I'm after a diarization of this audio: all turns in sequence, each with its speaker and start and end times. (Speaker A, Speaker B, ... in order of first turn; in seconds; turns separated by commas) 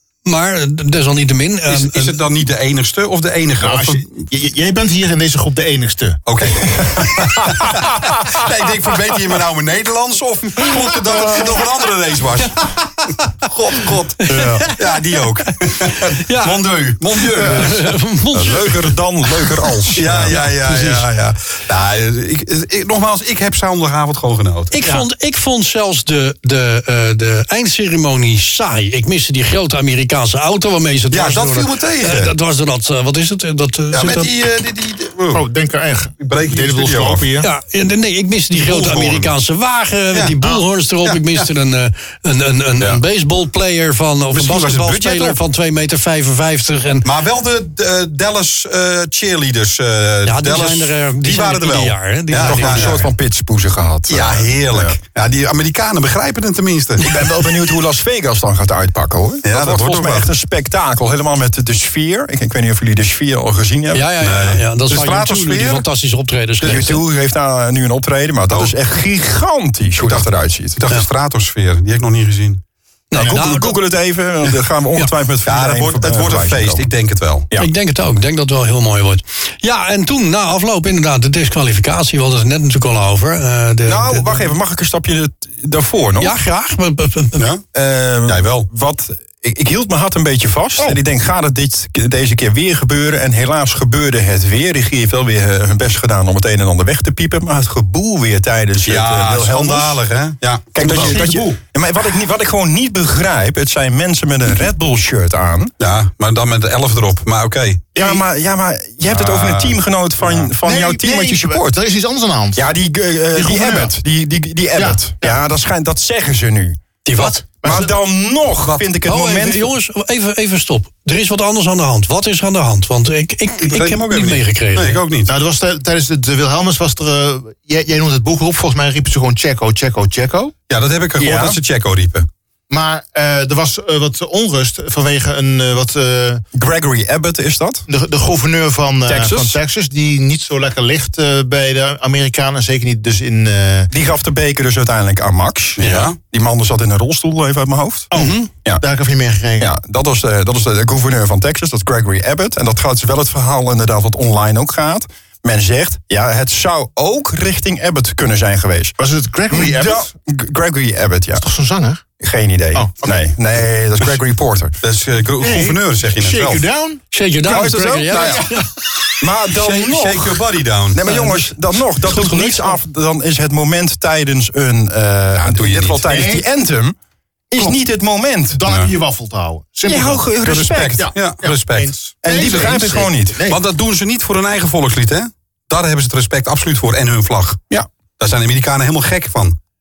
Speaker A: 0.2-2.2, Speaker B: 1.7-4.1, Speaker C: 3.6-6.2, Speaker B: 6.3-12.7, Speaker D: 6.7-8.2, Speaker A: 12.6-13.3, Speaker B: 13.4-17.9, Speaker A: 14.2-19.4, Speaker D: 14.3-14.6, Speaker D: 18.3-20.4, Speaker B: 20.0-25.1, Speaker A: 20.3-21.1, Speaker A: 24.7-34.3, Speaker B: 31.1-32.3, Speaker B: 33.9-35.5, Speaker C: 35.3-37.5, Speaker B: 36.2-37.3, Speaker A: 37.4-47.1, Speaker B: 38.6-39.3, Speaker B: 40.1-41.5, Speaker B: 44.3-45.4, Speaker B: 47.0-53.0, Speaker A: 50.2-53.1, Speaker D: 52.4-55.0, Speaker B: 54.1-57.2, Speaker D: 57.0-64.1, Speaker B: 59.4-60.3, Speaker A: 63.9-67.0, Speaker B: 64.2-65.8, Speaker B: 66.6-66.9, Speaker D: 66.6-70.8, Speaker B: 70.0-72.6, Speaker A: 73.1-73.8, Speaker D: 73.1-76.8, Speaker B: 75.5-77.5, Speaker A: 77.6-84.5, Speaker D: 83.9-86.3, Speaker A: 86.2-87.4, Speaker B: 87.4-87.6, Speaker D: 87.7-100.0, Speaker B: 88.3-88.7, Speaker B: 98.8-101.3, Speaker D: 100.7-105.7, Speaker C: 100.8-101.6, Speaker B: 105.8-107.9, Speaker C: 108.0-108.2, Speaker D: 108.0-111.8, Speaker B: 109.1-109.8, Speaker C: 110.6-112.7, Speaker D: 112.6-119.7, Speaker C: 113.3-113.9, Speaker C: 114.8-115.4, Speaker A: 117.0-117.4, Speaker C: 117.6-117.9, Speaker A: 119.0-125.0, Speaker B: 123.6-125.3, Speaker C: 125.3-130.5, Speaker B: 130.7-132.3, Speaker D: 131.2-131.6, Speaker C: 132.7-136.4, Speaker D: 136.5-137.8, Speaker C: 137.9-143.9, Speaker D: 139.1-139.6, Speaker D: 143.9-148.1, Speaker B: 145.8-146.2, Speaker C: 148.1-149.7, Speaker A: 148.1-148.5, Speaker D: 149.6-159.0, Speaker C: 159.0-160.1, Speaker D: 159.5-161.4, Speaker C: 161.4-162.0, Speaker D: 162.2-164.8, Speaker C: 162.7-163.1, Speaker B: 164.8-166.7, Speaker C: 165.4-167.0, Speaker A: 167.1-168.7, Speaker D: 167.5-168.5, Speaker C: 168.1-168.4, Speaker D: 169.2-177.0, Speaker B: 169.5-171.1, Speaker A: 171.1-172.8, Speaker B: 175.4-176.2, Speaker C: 176.1-176.4, Speaker D: 177.5-178.6, Speaker C: 178.5-180.3, Speaker D: 179.9-181.1, Speaker B: 180.4-182.8, Speaker C: 181.0-183.6, Speaker D: 182.2-183.4, Speaker B: 183.5-187.6, Speaker B: 188.2-189.6